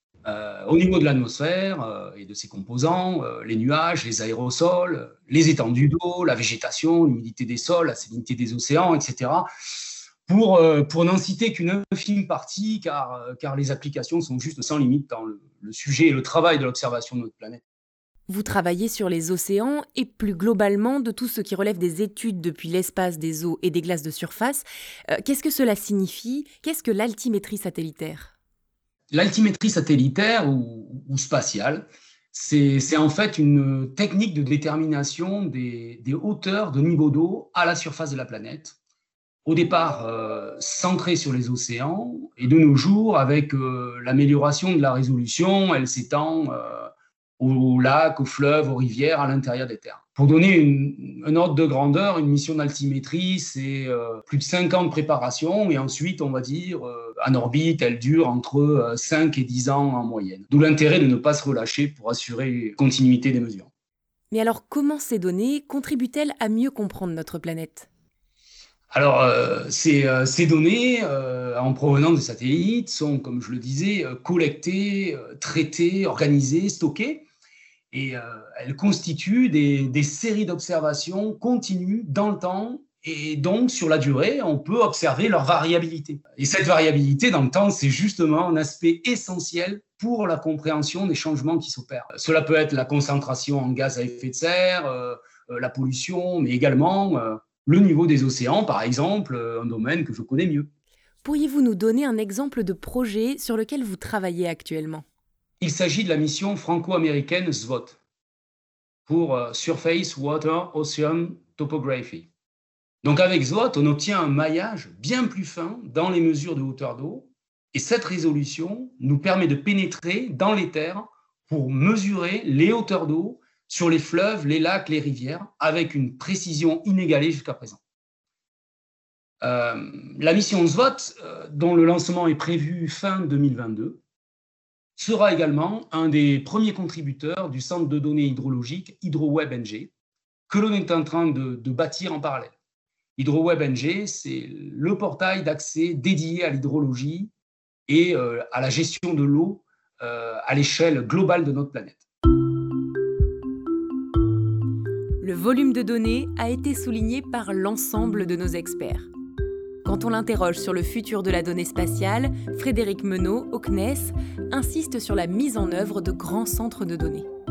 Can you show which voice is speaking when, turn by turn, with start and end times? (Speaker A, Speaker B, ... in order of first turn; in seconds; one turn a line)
Speaker A: 0.2-17.6
Speaker B: 18.3-28.3
Speaker A: 29.1-38.8
Speaker A: 39.5-63.7
Speaker B: 64.3-67.9
Speaker A: 68.9-77.2
Speaker A: 77.9-100.7
Speaker B: 101.2-105.0
Speaker A: 105.6-108.0
Speaker A: 109.1-112.3
Speaker A: 113.0-127.8
Speaker A: 129.4-134.0
Speaker A: 135.0-139.9
Speaker A: 140.5-142.5
Speaker A: 143.2-147.3
Speaker A: 147.9-152.0
Speaker B: 155.2-159.1
Speaker B: 159.8-167.3